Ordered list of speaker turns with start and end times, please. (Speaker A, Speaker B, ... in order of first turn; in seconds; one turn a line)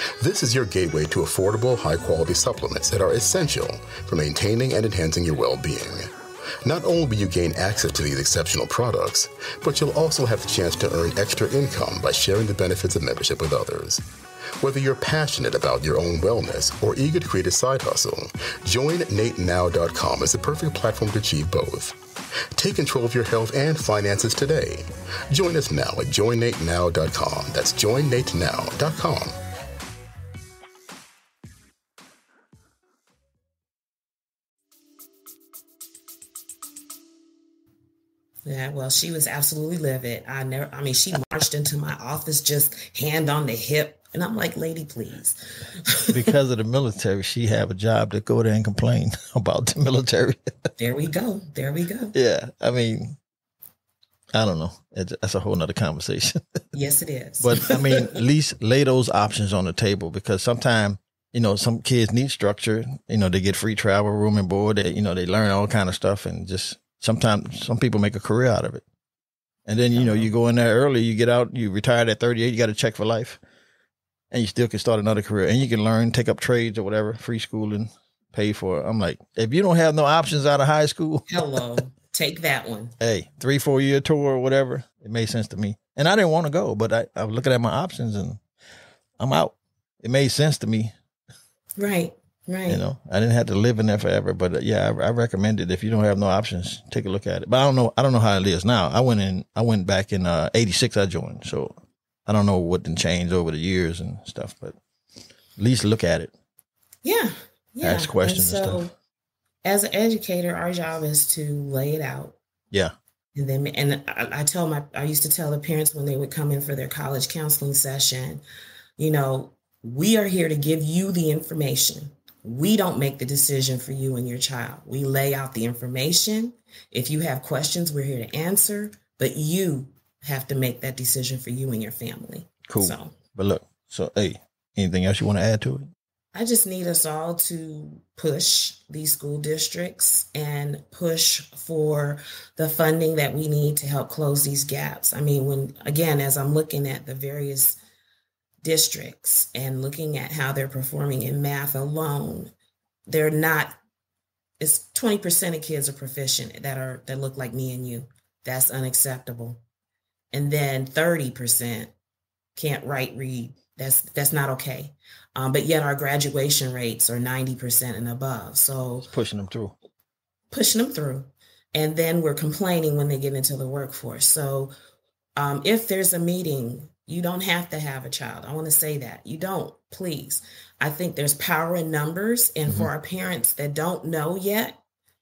Speaker A: 0.2-14.0
Speaker A: 14.6-22.0
Speaker A: 22.6-29.4
Speaker B: 38.5-46.2
Speaker C: 46.1-50.5
Speaker B: 50.8-52.1
Speaker C: 52.1-53.2
Speaker C: 54.3-56.4
Speaker B: 56.7-58.2
Speaker C: 57.4-68.8
Speaker C: 69.7-73.4
Speaker B: 69.9-70.3
Speaker C: 74.3-81.4
Speaker B: 81.3-83.0
Speaker C: 83.0-88.4
Speaker C: 89.2-90.9
Speaker B: 91.8-92.8
Speaker C: 92.7-104.8
Speaker C: 105.6-106.3
Speaker B: 107.0-108.9
Speaker C: 107.8-108.9
Speaker B: 109.6-112.4
Speaker B: 113.3-118.4
Speaker B: 119.0-133.2
Speaker C: 132.7-135.9
Speaker B: 136.3-147.8
Speaker B: 148.6-152.5
Speaker B: 153.1-153.8
Speaker B: 154.6-159.6
Speaker B: 160.3-161.9
Speaker B: 162.6-169.1
Speaker C: 169.0-169.8
Speaker B: 170.5-174.7
Speaker B: 175.4-184.8